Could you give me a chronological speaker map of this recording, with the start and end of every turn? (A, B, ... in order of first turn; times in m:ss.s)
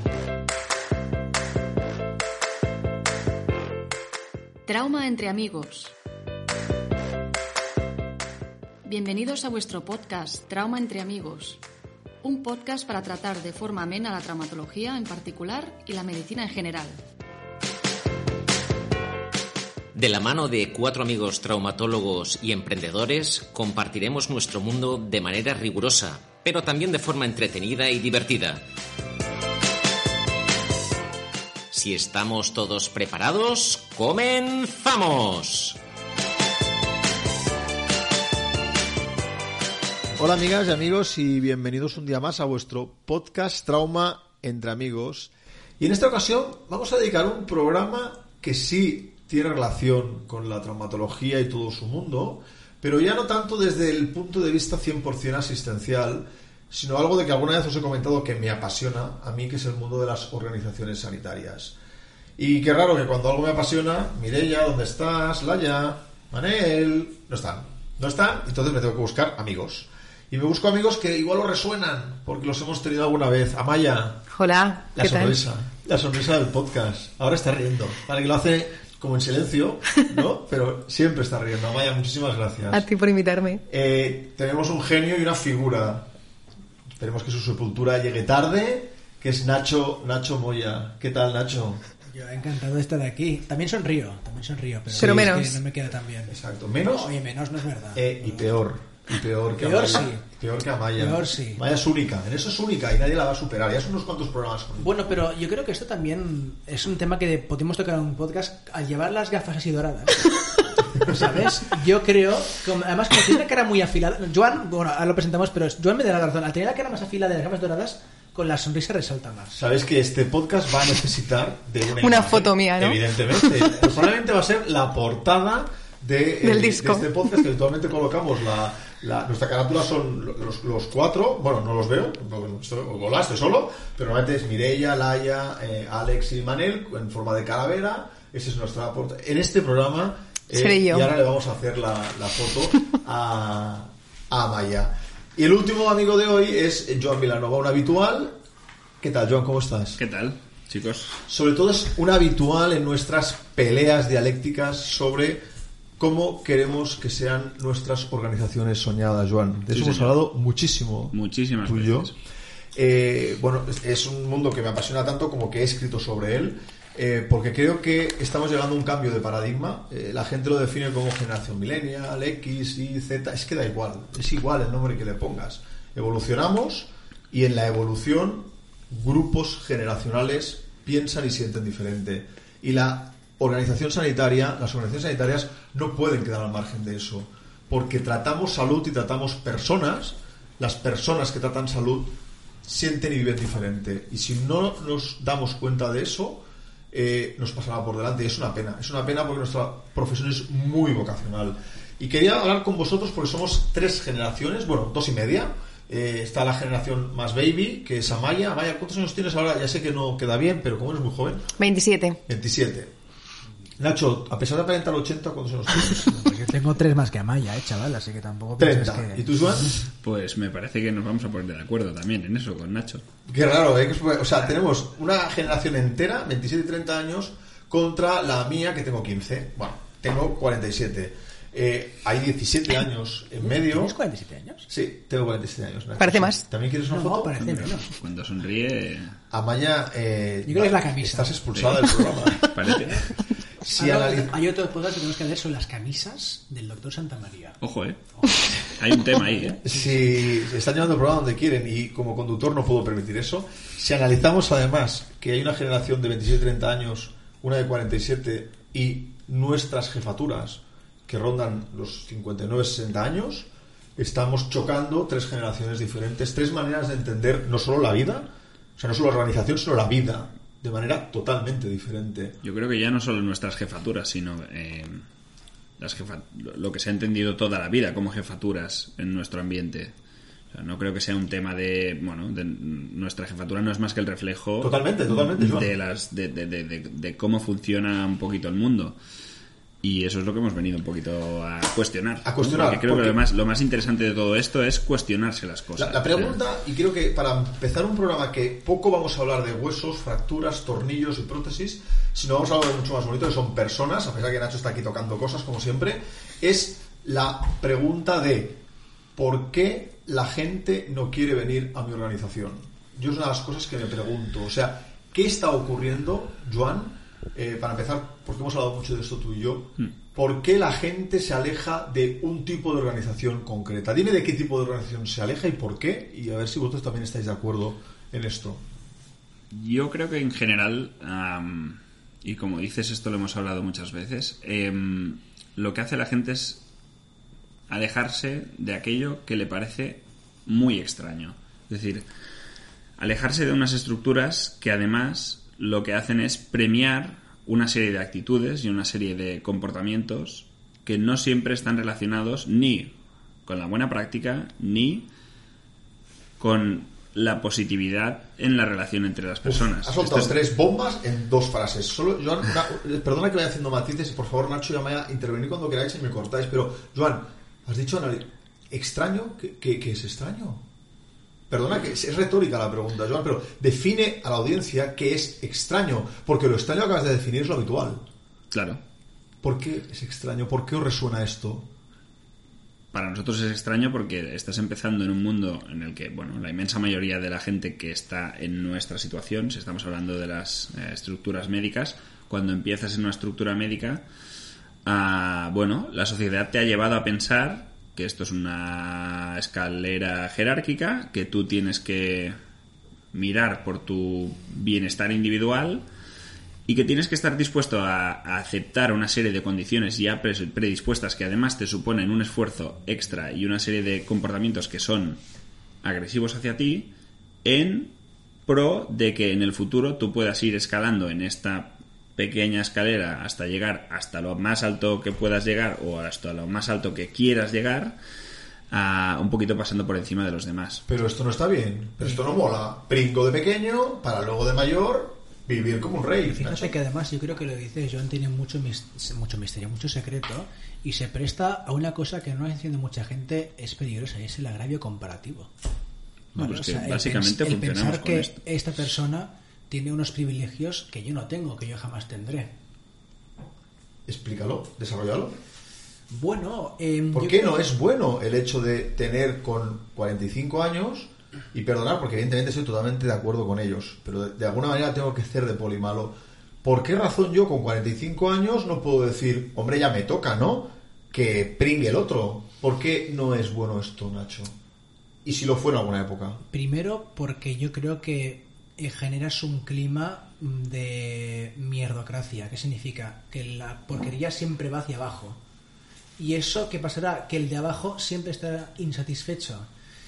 0:04.7-0:05.9 A
0:08.8-0:11.6 A
0:12.2-0:17.0 A
0:19.9-0:28.6 B
0:31.7-0:35.8 B
0:40.2-1:01.8 C
1:02.4-1:14.3 C
1:14.3-1:15.4 D
1:15.0-1:22.9 C
1:22.7-1:23.6 D
1:23.7-1:26.1 C
1:27.0-1:31.8 C
1:32.1-1:38.5 E
1:34.9-1:35.6 C
1:34.9-1:35.6 D
1:36.3-1:37.1 C
1:37.9-1:45.1 C
1:39.6-1:40.2 E
1:41.0-1:41.6 E
1:44.8-1:50.3 E
1:51.0-1:59.6 E
1:59.5-2:28.4 C
2:02.0-2:03.6 D
2:06.4-2:07.2 D
2:20.5-2:21.1 D
2:29.0-2:30.0 C
2:30.0-2:31.2 F
2:31.3-2:35.4 C
2:36.0-2:42.1 C
2:39.7-2:40.2 F
2:41.1-2:42.1 F
2:42.7-3:31.5 C
3:31.6-3:32.2 D
3:32.3-3:32.9 C
3:33.8-3:36.2 C
3:36.0-3:39.2 E
3:38.6-3:39.8 C
3:40.0-3:43.0 F
3:43.3-3:53.9 C
3:53.4-3:54.7 E
3:54.7-3:57.4 C
3:56.0-3:56.4 D
3:56.8-3:57.9 E
3:57.4-3:59.2 F
3:59.3-4:02.7 C
4:00.4-4:01.4 E
4:02.4-4:03.2 F
4:03.6-4:04.3 C
4:03.7-4:07.6 E
4:07.6-4:09.6 F
4:09.6-4:32.4 C
4:32.4-4:35.0 F
4:35.8-4:39.9 F
4:40.5-4:49.0 F
4:44.6-4:45.7 C
4:49.8-4:56.4 F
4:52.2-4:53.2 C
4:55.8-5:08.6 C
5:09.1-5:28.6 C
5:29.5-5:36.6 F
5:37.7-5:42.1 F
5:43.0-5:55.1 F
5:56.4-6:00.3 F
5:59.4-6:10.6 C
6:11.5-6:18.0 C
6:18.5-6:18.8 F
6:19.4-6:21.7 C
6:22.9-6:34.0 F
6:34.8-6:42.4 F
6:43.1-6:45.8 F
6:46.6-6:55.2 F
6:55.8-6:56.9 F
6:57.4-6:57.9 F
6:58.4-7:08.0 F
7:08.7-7:10.8 F
7:10.9-7:16.7 C
7:12.0-7:12.3 E
7:16.3-7:25.5 E
7:26.3-7:28.4 F
7:26.3-7:32.5 E
7:34.1-7:35.4 C
7:36.1-7:37.6 E
7:37.1-7:54.6 C
7:55.2-7:56.4 C
7:56.5-8:05.4 E
8:06.2-8:09.7 E